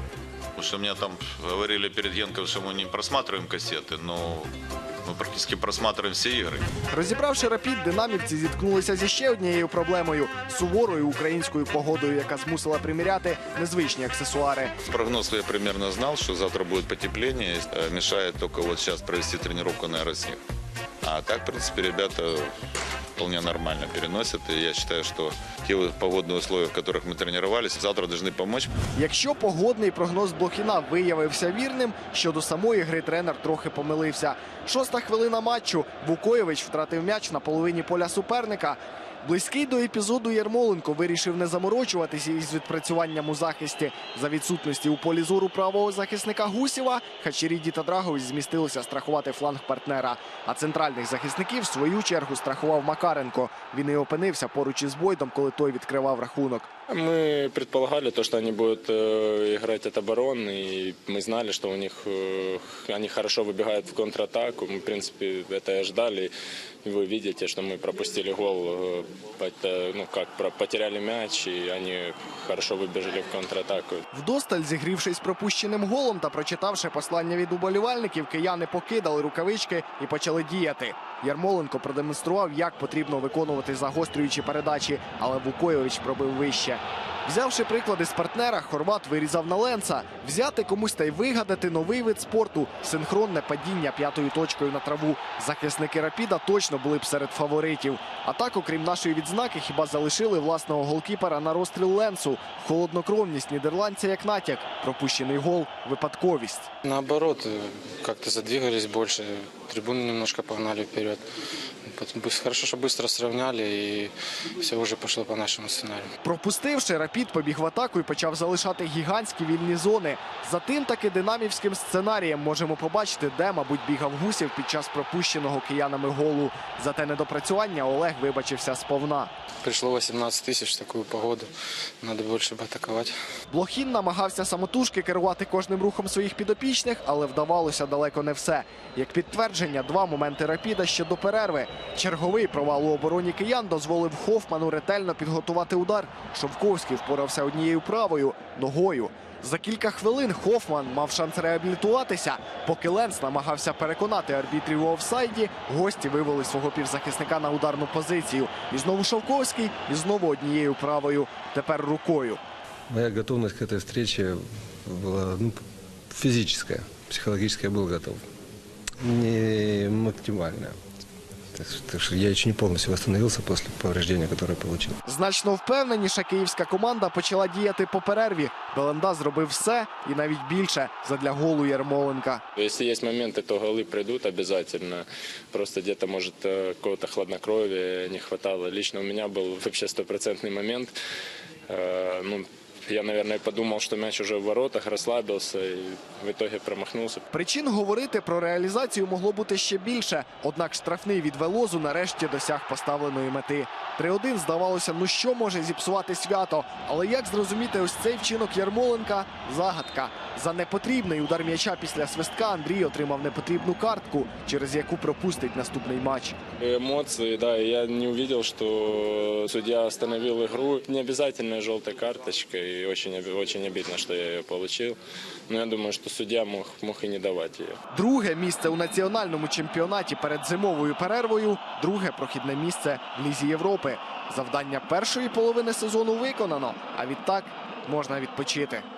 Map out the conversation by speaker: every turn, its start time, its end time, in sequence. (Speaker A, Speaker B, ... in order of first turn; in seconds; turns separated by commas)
Speaker A: 0.6-4.5, Speaker A: 5.0-6.7, Speaker B: 6.9-14.7, Speaker A: 14.8-20.4, Speaker A: 21.0-22.5, Speaker A: 23.1-28.7, Speaker B: 28.9-56.7, Speaker C: 56.9-66.3, Speaker C: 66.8-74.0, Speaker B: 74.1-106.7, Speaker D: 106.8-111.2, Speaker D: 111.9-116.1, Speaker B: 116.2-129.3, Speaker D: 129.6-131.5, Speaker D: 132.0-133.1, Speaker B: 133.5-162.4, Speaker E: 162.9-168.2, Speaker E: 169.0-170.8, Speaker E: 171.5-175.0, Speaker B: 175.0-182.4, Speaker C: 182.6-190.9, Speaker C: 191.7-197.2, Speaker B: 197.3-216.4, Speaker C: 216.6-227.8, Speaker B: 227.9-238.8